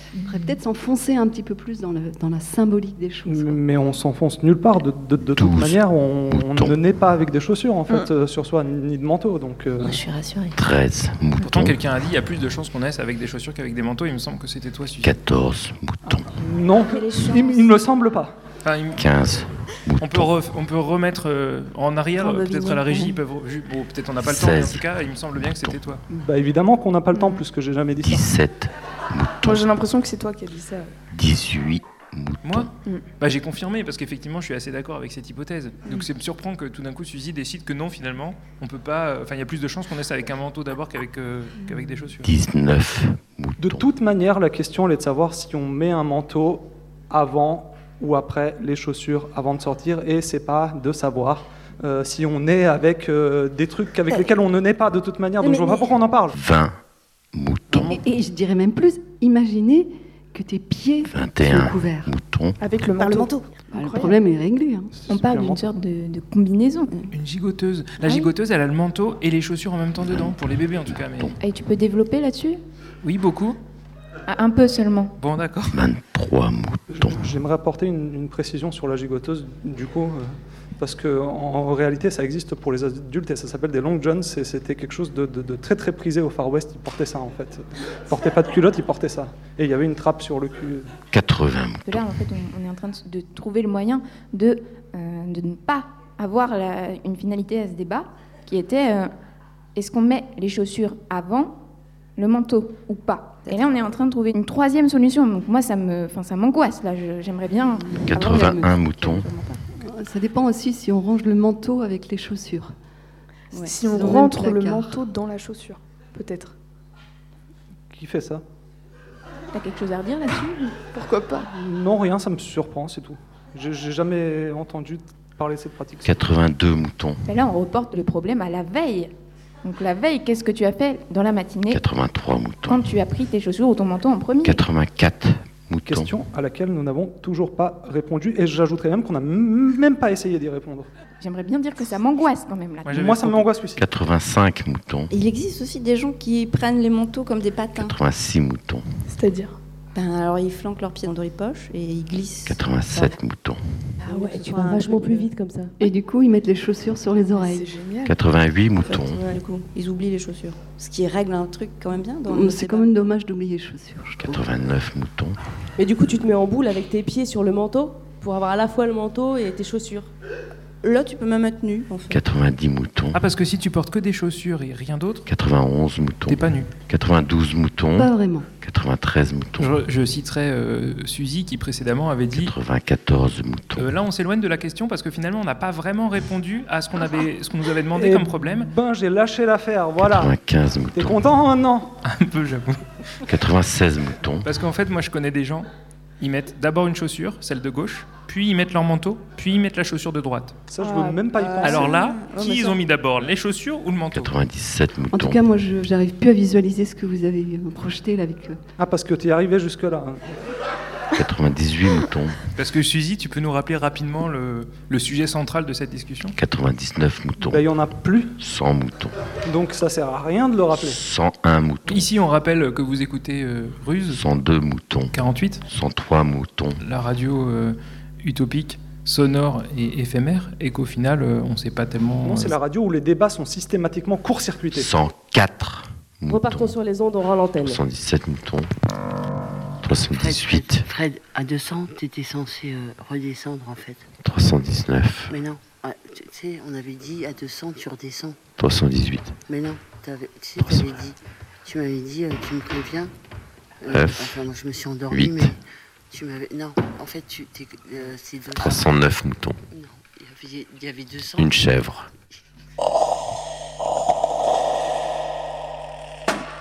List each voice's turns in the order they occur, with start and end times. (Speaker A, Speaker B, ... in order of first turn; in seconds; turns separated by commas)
Speaker A: 0.2-3.6, Speaker B: 0.3-0.6, Speaker C: 3.2-9.9, Speaker D: 5.3-5.8, Speaker D: 6.3-6.7, Speaker B: 9.8-10.5, Speaker D: 10.6-11.8, Speaker E: 11.4-15.1, Speaker D: 15.0-16.3, Speaker C: 16.1-18.3, Speaker B: 17.0-17.4, Speaker E: 18.6-19.1, Speaker D: 18.9-20.3, Speaker E: 20.0-26.0, Speaker B: 22.2-23.1, Speaker D: 24.2-25.8, Speaker C: 26.1-28.3, Speaker F: 27.1-27.4, Speaker D: 28.0-29.7, Speaker F: 29.4-30.9, Speaker D: 31.1-32.7, Speaker E: 32.4-42.3, Speaker D: 42.2-43.9, Speaker C: 43.6-56.4, Speaker B: 55.4-55.9, Speaker D: 56.3-56.8, Speaker D: 57.3-58.0, Speaker A: 57.9-62.1, Speaker D: 61.1-62.6, Speaker F: 62.6-64.2, Speaker B: 63.0-63.4, Speaker A: 63.7-64.9, Speaker C: 64.9-65.7, Speaker G: 65.1-66.9, Speaker E: 67.1-71.4, Speaker D: 70.0-71.3, Speaker G: 71.4-72.6, Speaker E: 73.0-73.6, Speaker G: 74.3-75.1, Speaker E: 75.2-75.8, Speaker D: 75.7-77.3, Speaker C: 76.9-90.9, Speaker D: 91.1-92.1, Speaker G: 91.8-99.1, Speaker G: 99.7-101.5, Speaker G: 102.2-107.9, Speaker B: 103.4-104.0, Speaker A: 107.9-108.8, Speaker D: 108.1-109.3, Speaker B: 108.2-109.6, Speaker A: 109.8-112.7, Speaker B: 113.5-115.0, Speaker F: 113.6-116.5, Speaker C: 117.9-118.4, Speaker G: 119.5-120.8, Speaker F: 120.9-121.5, Speaker C: 121.5-126.2, Speaker D: 126.0-127.2, Speaker G: 127.3-129.1, Speaker G: 129.6-131.8, Speaker D: 131.7-132.9, Speaker G: 132.7-134.6, Speaker D: 134.4-136.1, Speaker C: 135.9-140.9, Speaker G: 141.2-143.0, Speaker E: 142.8-143.5, Speaker C: 143.0-143.8, Speaker D: 143.8-145.1, Speaker B: 145.1-147.9, Speaker D: 147.8-148.8, Speaker F: 149.1-149.5, Speaker B: 149.9-153.1, Speaker D: 152.4-153.6, Speaker B: 154.1-155.3, Speaker F: 154.1-154.4, Speaker H: 154.5-155.7, Speaker A: 155.8-157.7, Speaker F: 157.4-158.1, Speaker D: 158.0-159.3, Speaker B: 158.8-162.9, Speaker A: 162.2-164.4, Speaker D: 164.2-165.3, Speaker H: 165.8-170.1, Speaker B: 170.8-172.2, Speaker D: 172.1-173.2, Speaker E: 173.1-175.2, Speaker D: 175.2-179.7, Speaker E: 176.3-176.7, Speaker A: 178.0-178.5, Speaker E: 179.6-182.5, Speaker D: 182.3-183.9, Speaker E: 183.8-188.7, Speaker C: 187.9-190.3, Speaker D: 190.0-191.2, Speaker C: 190.9-191.9, Speaker E: 192.0-192.8, Speaker D: 193.3-194.4, Speaker E: 194.4-195.7, Speaker E: 196.2-200.6, Speaker C: 200.7-201.9, Speaker F: 200.8-202.2, Speaker E: 201.6-204.3, Speaker B: 202.2-202.8, Speaker D: 204.1-205.4, Speaker A: 205.1-208.6, Speaker C: 208.8-210.2, Speaker D: 211.2-212.4, Speaker E: 212.6-216.3, Speaker D: 216.3-217.6, Speaker C: 217.4-218.4, Speaker D: 218.4-219.1, Speaker C: 219.4-221.0, Speaker D: 220.8-222.1, Speaker E: 221.9-224.2, Speaker D: 224.1-226.8, Speaker E: 225.1-225.6, Speaker E: 226.8-232.5, Speaker C: 232.2-234.9, Speaker D: 234.7-236.8, Speaker H: 236.3-237.8, Speaker D: 237.6-238.7, Speaker D: 239.8-240.9, Speaker I: 240.1-244.1, Speaker D: 244.2-245.3, Speaker I: 245.3-248.4, Speaker D: 248.6-249.3, Speaker I: 249.5-253.1, Speaker D: 250.6-250.9, Speaker I: 253.8-255.6, Speaker D: 253.9-254.4, Speaker D: 255.1-255.5, Speaker I: 256.1-259.2, Speaker D: 258.6-258.9, Speaker I: 259.7-261.9